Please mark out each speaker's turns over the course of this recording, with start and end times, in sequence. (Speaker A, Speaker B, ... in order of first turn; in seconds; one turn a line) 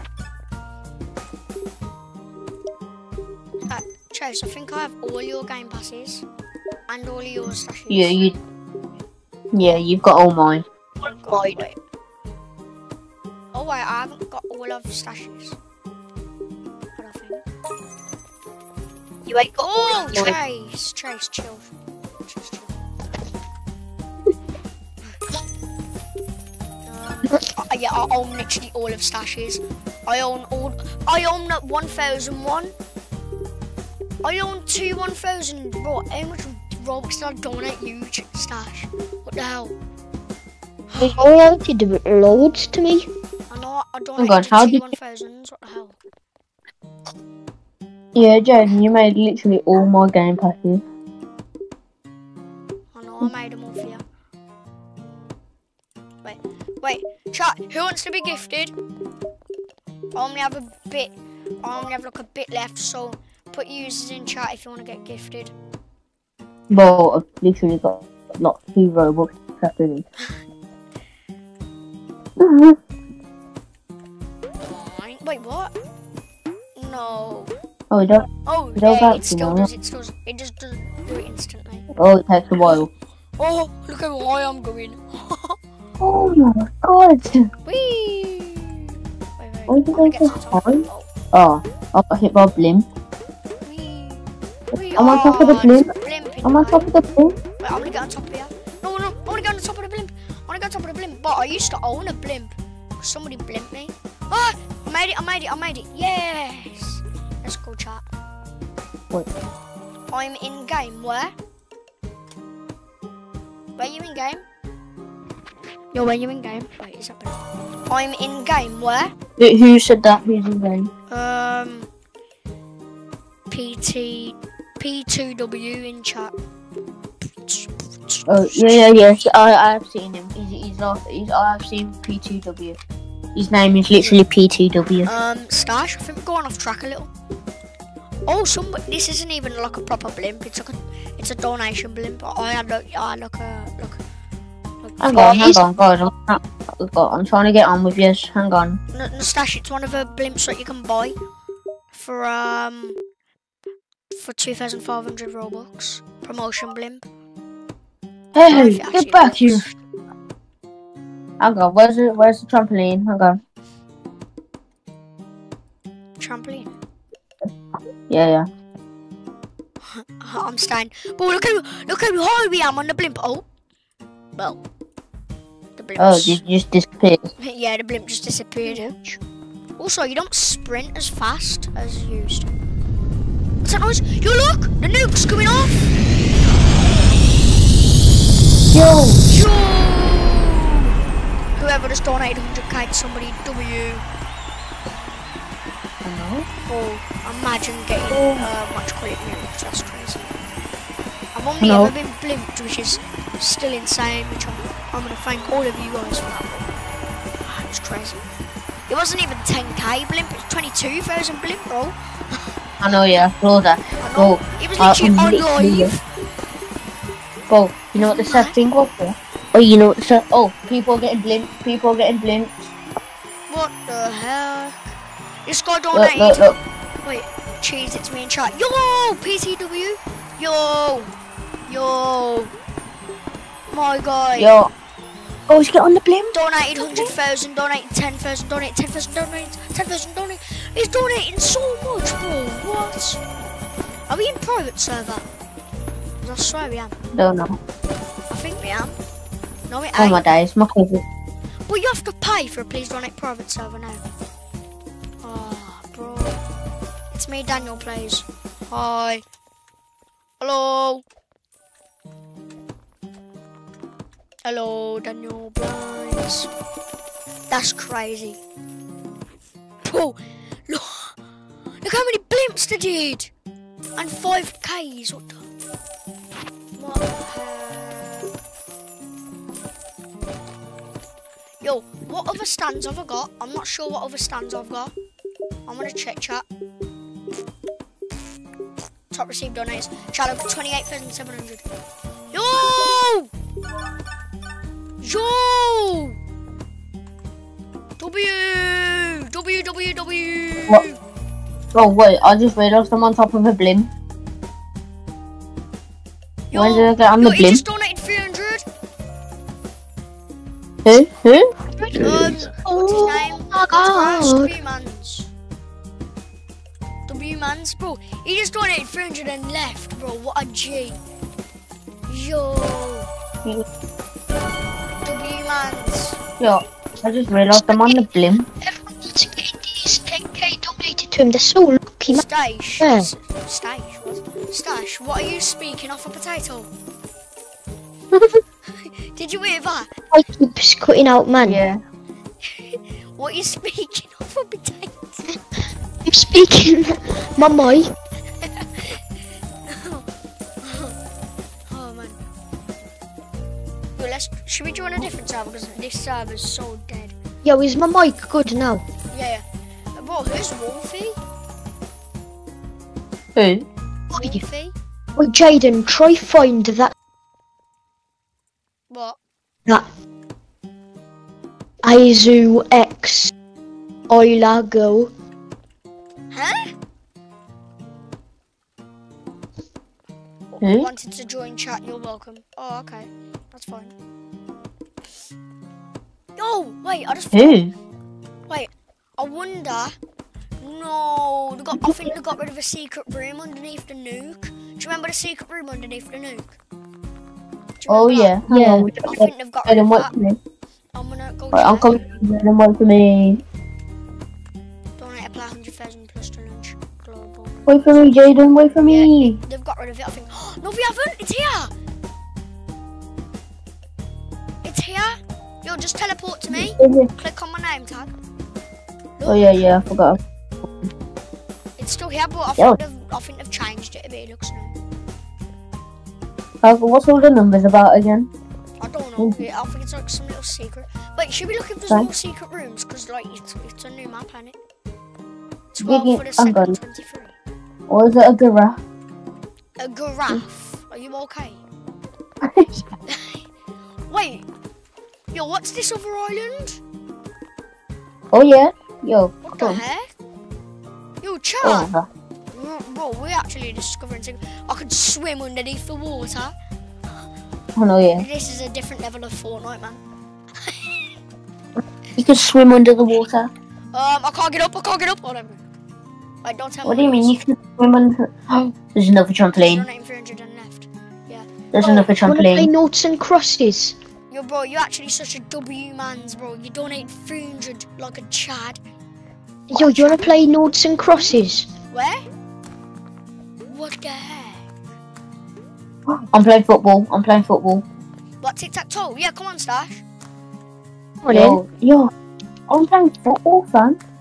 Speaker A: 3.7-6.2
Speaker A: 6.9-8.3
Speaker B: 7.9-8.3
Speaker B: 9.5-10.7
Speaker A: 11.0-11.8
Speaker C: 11.0-11.7
Speaker A: 13.5-15.6
Speaker A: 17.0-17.4
Speaker C: 19.2-20.3
Speaker A: 19.6-21.7
Speaker A: 22.2-22.8
Speaker A: 26.9-32.7
Speaker A: 34.2-39.7
Speaker A: 40.9-41.2
Speaker C: 41.0-43.1
Speaker A: 43.5-46.0
Speaker B: 44.2-44.9
Speaker B: 48.1-50.8
Speaker A: 52.9-54.0
Speaker A: 56.2-58.7
Speaker A: 60.1-65.5
Speaker B: 66.7-70.1
Speaker B: 72.4-72.8
Speaker A: 74.6-75.7
Speaker A: 76.8-77.5
Speaker B: 77.9-79.7
Speaker A: 78.4-81.8
Speaker B: 81.9-82.9
Speaker A: 83.4-85.6
Speaker B: 86.0-87.5
Speaker A: 87.6-91.1
Speaker B: 89.7-92.8
Speaker A: 93.6-96.9
Speaker B: 94.9-95.9
Speaker B: 96.4-97.3
Speaker A: 97.6-108.0
Speaker A: 110.1-111.3
Speaker A: 113.8-114.4
Speaker A: 115.9-119.1
Speaker B: 119.4-120.9
Speaker A: 121.1-121.9
Speaker A: 123.5-126.3
Speaker A: 127.4-129.2
Speaker B: 128.3-132.8
Speaker B: 133.3-135.1
Speaker A: 135.0-137.1
Speaker A: 138.3-144.0
Speaker A: 144.8-145.6
Speaker B: 145.0-148.8
Speaker C: 145.1-145.6
Speaker A: 148.9-151.2
Speaker A: 151.9-153.0
Speaker A: 154.1-157.0
Speaker B: 158.3-159.7
Speaker A: 158.5-159.7
Speaker B: 161.4-163.4
Speaker A: 166.2-166.8
Speaker B: 168.1-168.5
Speaker A: 169.8-173.4
Speaker A: 174.3-174.6
Speaker A: 175.8-176.4
Speaker B: 176.0-177.3
Speaker A: 177.4-178.9
Speaker C: 178.6-179.2
Speaker A: 179.8-182.5
Speaker A: 183.6-185.9
Speaker B: 188.7-189.2
Speaker A: 189.2-190.9
Speaker A: 191.6-194.0
Speaker B: 196.0-196.5
Speaker A: 196.6-200.4
Speaker B: 198.1-198.5
Speaker A: 201.3-206.7
Speaker B: 201.6-201.9
Speaker A: 207.4-208.2
Speaker A: 208.9-212.5
Speaker B: 212.8-215.9
Speaker A: 214.0-216.0
Speaker B: 217.5-222.7
Speaker A: 218.0-218.6
Speaker A: 223.5-224.8
Speaker A: 225.4-226.5
Speaker B: 225.9-226.6
Speaker A: 227.0-231.1
Speaker A: 231.7-232.5
Speaker A: 233.7-234.5
Speaker B: 234.4-234.7
Speaker C: 235.5-236.2
Speaker B: 235.7-236.3
Speaker A: 236.3-243.2
Speaker A: 244.1-245.2
Speaker A: 246.2-246.9
Speaker B: 247.1-247.6
Speaker A: 248.3-248.9
Speaker A: 249.7-250.2
Speaker B: 250.0-251.0
Speaker A: 251.7-254.1
Speaker A: 255.2-256.4
Speaker A: 257.1-259.2
Speaker A: 260.4-261.0
Speaker A: 264.4-266.5
Speaker A: 267.5-268.4
Speaker A: 269.8-271.2
Speaker A: 271.8-273.3
Speaker A: 273.9-275.5
Speaker A: 276.8-278.3
Speaker A: 281.6-284.9
Speaker A: 285.6-286.4
Speaker A: 289.1-291.6
Speaker A: 292.3-293.3
Speaker A: 295.0-296.2
Speaker A: 298.0-301.0
Speaker B: 301.7-303.9
Speaker A: 306.5-308.6
Speaker B: 306.5-307.6
Speaker B: 310.8-312.5
Speaker A: 311.8-315.3
Speaker C: 312.6-314.5
Speaker A: 317.1-321.0
Speaker A: 322.1-323.1
Speaker A: 325.0-326.2
Speaker B: 326.4-328.5
Speaker C: 327.5-328.0
Speaker C: 328.6-332.2
Speaker A: 332.1-336.7
Speaker C: 332.8-333.1
Speaker A: 338.7-339.9
Speaker C: 340.1-341.6
Speaker B: 341.4-341.8
Speaker A: 342.5-345.2
Speaker C: 346.0-347.9
Speaker A: 348.4-349.0
Speaker A: 349.7-350.0
Speaker A: 350.6-350.9
Speaker A: 351.7-352.2
Speaker A: 354.0-357.1
Speaker C: 357.4-358.8
Speaker A: 359.1-361.2
Speaker B: 363.3-363.6
Speaker C: 364.1-364.4
Speaker A: 364.1-364.7
Speaker C: 365.2-366.9
Speaker A: 368.9-369.2
Speaker C: 371.8-373.3
Speaker C: 374.1-375.1
Speaker A: 376.3-376.7
Speaker A: 380.5-383.9
Speaker B: 380.6-380.9
Speaker A: 386.4-387.6
Speaker B: 387.3-387.7
Speaker A: 388.5-389.9
Speaker A: 390.6-396.5
Speaker A: 397.8-398.4
Speaker B: 397.9-400.4
Speaker C: 398.5-398.9
Speaker A: 398.9-400.1
Speaker A: 400.9-402.0
Speaker B: 401.5-403.4
Speaker A: 405.0-408.1
Speaker B: 407.7-409.4
Speaker A: 408.8-411.7
Speaker A: 414.6-418.1
Speaker B: 416.5-417.1
Speaker A: 419.2-419.6
Speaker B: 419.2-420.7
Speaker A: 421.8-424.7
Speaker B: 426.6-428.3
Speaker A: 428.8-434.6
Speaker A: 435.7-437.4
Speaker B: 435.8-436.8
Speaker B: 437.9-438.8
Speaker A: 439.8-441.6
Speaker B: 442.4-442.8
Speaker A: 443.1-443.4
Speaker A: 444.1-444.4
Speaker A: 445.3-446.8
Speaker B: 448.3-449.8
Speaker A: 449.4-450.1
Speaker A: 451.2-451.9
Speaker B: 451.6-452.1
Speaker A: 452.5-456.5
Speaker B: 457.7-458.2
Speaker A: 458.2-460.0
Speaker A: 460.7-460.9
Speaker B: 462.1-463.5
Speaker A: 463.9-465.6
Speaker A: 466.4-467.4
Speaker B: 466.8-469.9
Speaker A: 469.6-472.1
Speaker B: 471.7-472.7
Speaker C: 472.2-473.9
Speaker A: 474.3-478.8
Speaker C: 479.7-481.7
Speaker A: 479.7-480.4
Speaker A: 481.9-482.2
Speaker A: 483.6-484.7
Speaker B: 486.3-487.8
Speaker A: 488.4-490.0
Speaker C: 491.2-491.6
Speaker B: 491.3-492.1
Speaker B: 492.7-494.0